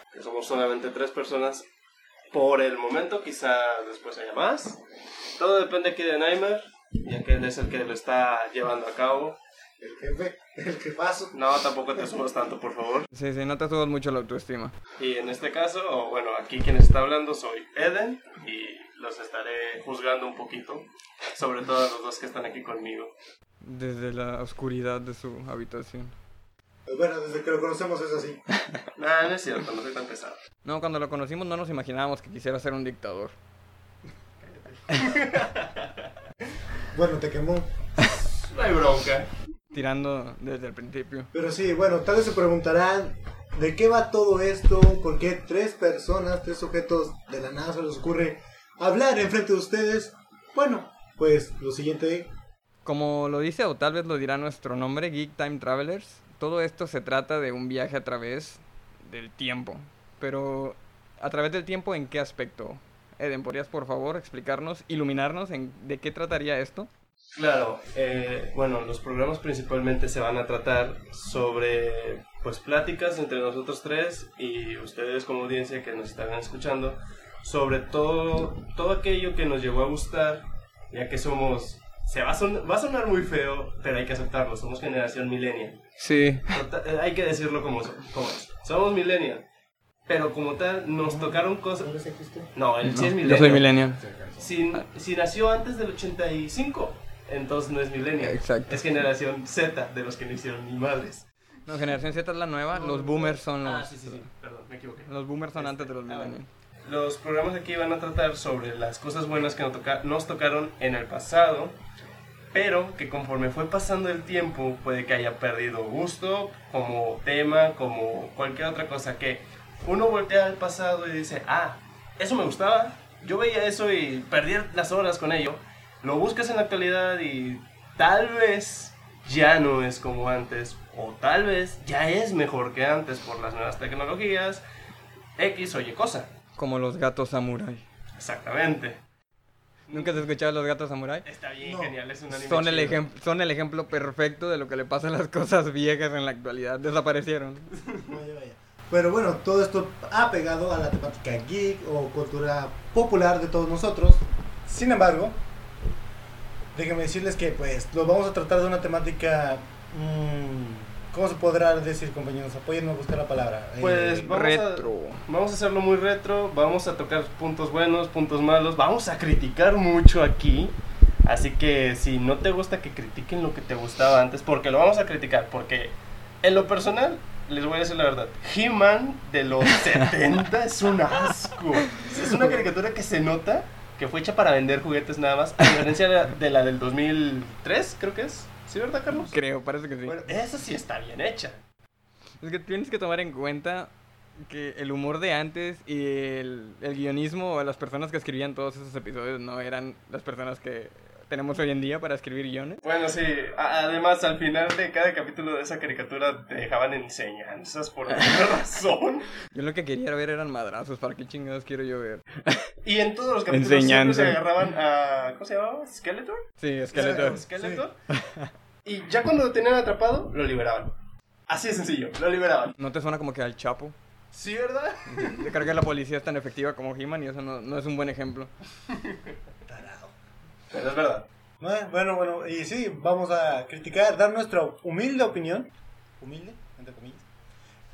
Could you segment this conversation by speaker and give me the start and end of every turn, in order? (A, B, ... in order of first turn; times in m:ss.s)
0:00.1-0:01.7 A
0:02.3-0:04.8 A
0:05.4-0:09.4 A
0:09.8-0:11.4 B
0:11.3-0:13.1 A
0:13.1-0:14.8 C
0:15.0-0:23.1 A
0:23.6-0:26.2 C
0:26.9-0:28.5 B
0:29.0-0:30.4 A
0:30.6-0:33.4 C
0:34.4-0:36.1 A
0:36.9-0:37.7 B
0:38.1-0:39.3 A
0:39.7-0:41.3 C
0:41.3-0:52.3 B
0:52.8-1:06.9 C
1:07.4-1:25.8 A
1:26.0-1:26.6 C
1:26.5-1:29.4 A
1:30.1-1:31.9 A
1:31.0-1:32.5 B
1:32.6-1:33.8 A
1:32.8-1:34.0 C
1:33.3-1:34.5 B
1:34.4-1:41.3 A
1:38.2-1:38.8 C
1:41.7-1:44.3 C
1:42.7-1:51.8 A
1:45.1-1:46.5 C
1:52.5-2:14.6 A
2:15.4-2:16.3 A
2:16.6-2:17.8 C
2:18.2-2:19.0 A
2:19.9-2:20.3 A
2:19.9-2:21.3 C
2:21.2-2:23.0 A
2:21.6-2:22.0 B
2:22.3-2:27.7 C
2:28.0-2:35.4 B
2:36.8-2:44.4 B
2:43.8-3:09.4 A
2:44.3-2:45.2 C
3:09.2-3:10.2 C
3:10.1-3:11.6 A
3:12.4-3:22.8 C
3:22.8-3:29.4 A
3:29.5-3:32.7 C
3:32.8-3:38.0 A
3:33.5-3:34.4 C
3:36.6-3:37.4 C
3:36.9-3:37.8 B
3:38.1-3:38.5 C
3:38.8-3:41.0 A
3:41.5-3:42.8 A
3:42.8-3:44.0 C
3:44.3-3:45.6 A
3:45.1-3:48.5 C
3:48.9-3:49.3 A
3:49.7-3:50.1 B
3:50.7-3:51.3 A
3:51.6-3:57.3 B